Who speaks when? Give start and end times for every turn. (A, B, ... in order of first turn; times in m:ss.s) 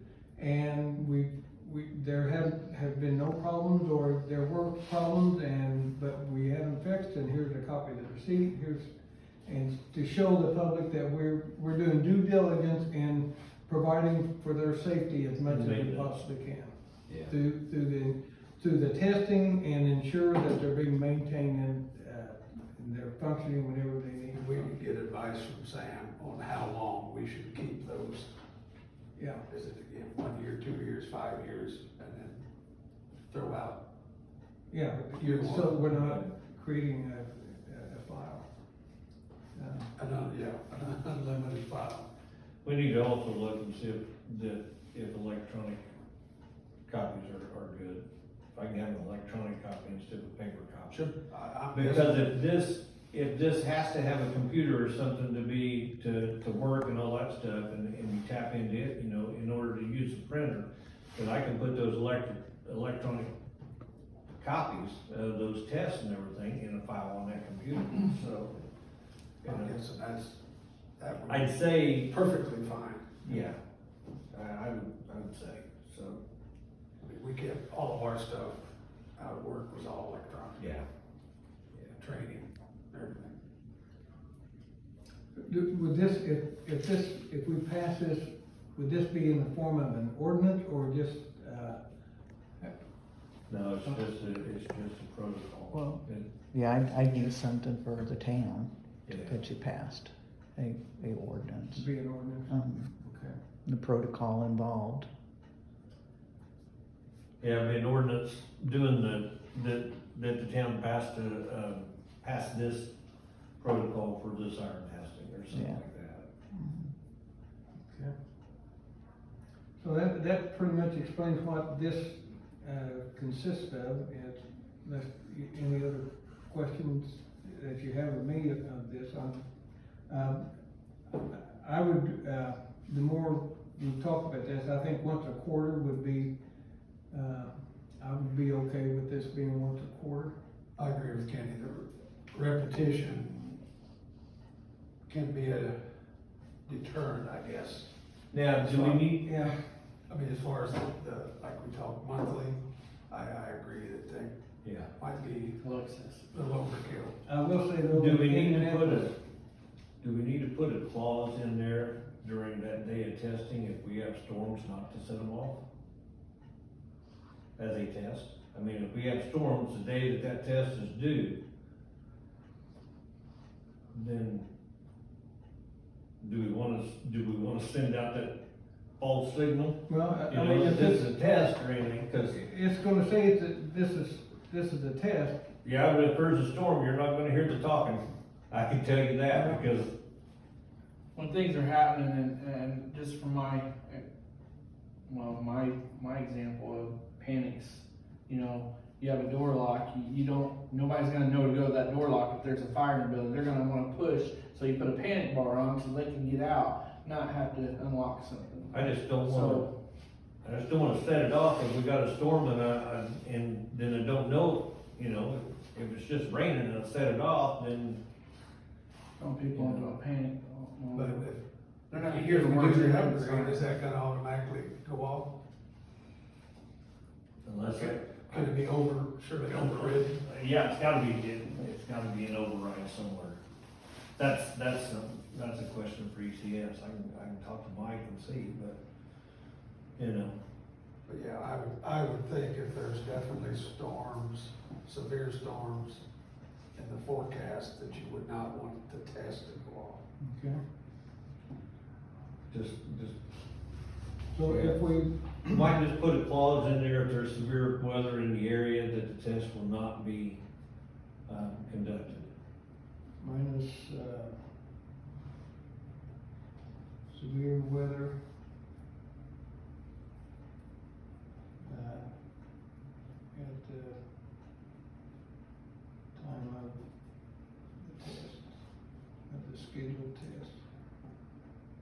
0:00.4-0:08.9 A
0:09.4-0:24.7 A
0:15.4-0:16.2 B
0:17.1-0:17.3 B
0:24.3-0:28.3 C
0:29.2-0:29.5 A
0:29.5-0:32.4 C
0:33.3-0:33.8 C
0:34.7-0:38.5 A
0:35.1-0:35.8 C
0:35.9-0:36.3 B
0:39.6-0:39.9 A
0:40.0-0:42.1 C
0:42.6-0:45.8 B
0:46.9-0:48.0 B
0:48.6-0:51.1 B
0:50.9-0:52.4 C
0:51.7-1:03.3 B
1:04.4-1:08.6 B
1:09.4-1:09.8 B
1:09.4-1:10.4 C
1:11.0-1:13.3 C
1:11.3-1:12.1 B
1:13.2-1:13.6 B
1:14.3-1:16.2 B
1:17.0-1:18.7 C
1:19.2-1:20.7 C
1:20.6-1:20.8 B
1:22.0-1:23.4 C
1:25.4-1:31.8 A
1:33.5-1:36.3 B
1:35.7-1:41.9 D
1:39.1-1:39.4 B
1:41.7-1:43.4 A
1:42.5-1:42.9 D
1:43.7-1:45.1 D
1:47.4-1:52.9 B
1:53.6-1:56.3 B
1:55.5-1:55.8 D
1:56.5-1:56.9 D
1:57.8-1:58.1 A
1:59.8-2:09.4 A
2:10.1-2:10.5 A
2:11.1-2:16.3 A
2:17.1-2:20.4 A
2:20.8-2:23.6 C
2:25.1-2:25.8 C
2:26.7-2:27.9 C
2:28.3-2:29.3 B
2:28.6-2:29.6 A
2:30.1-2:32.6 C
2:33.1-2:34.4 C
2:34.6-2:34.9 B
2:35.0-2:35.6 C
2:35.6-2:36.2 E
2:36.3-2:37.2 C
2:37.2-2:39.1 A
2:37.8-2:39.1 B
2:40.0-2:45.6 B
2:47.6-2:51.4 B
2:53.9-2:54.5 B
2:56.2-2:58.4 B
2:59.0-3:02.4 B
2:59.9-3:01.1 A
3:02.3-3:05.5 A
3:05.6-3:09.9 B
3:09.3-3:09.6 A
3:11.2-3:14.0 E
3:15.0-3:29.7 E
3:28.7-3:29.7 B
3:30.4-3:38.0 B
3:39.2-3:41.3 E
3:39.5-3:39.9 B
3:40.9-3:41.4 C
3:41.9-3:43.7 E
3:41.9-3:45.4 C
3:47.4-3:48.6 B
3:47.8-3:50.2 C
3:49.5-3:53.4 B
3:54.2-3:58.8 B
4:00.0-4:00.4 B
4:01.1-4:06.0 C
4:06.8-4:10.0 C
4:10.2-4:10.6 A
4:12.5-4:13.2 B
4:14.3-4:15.5 A
4:14.4-4:14.8 B
4:15.4-4:20.4 B
4:21.3-4:22.3 B
4:23.2-4:24.5 A
4:27.1-4:28.2 A
4:31.6-4:32.7 A
4:33.3-4:34.0 A
4:36.2-4:36.8 A
4:37.3-4:40.6 A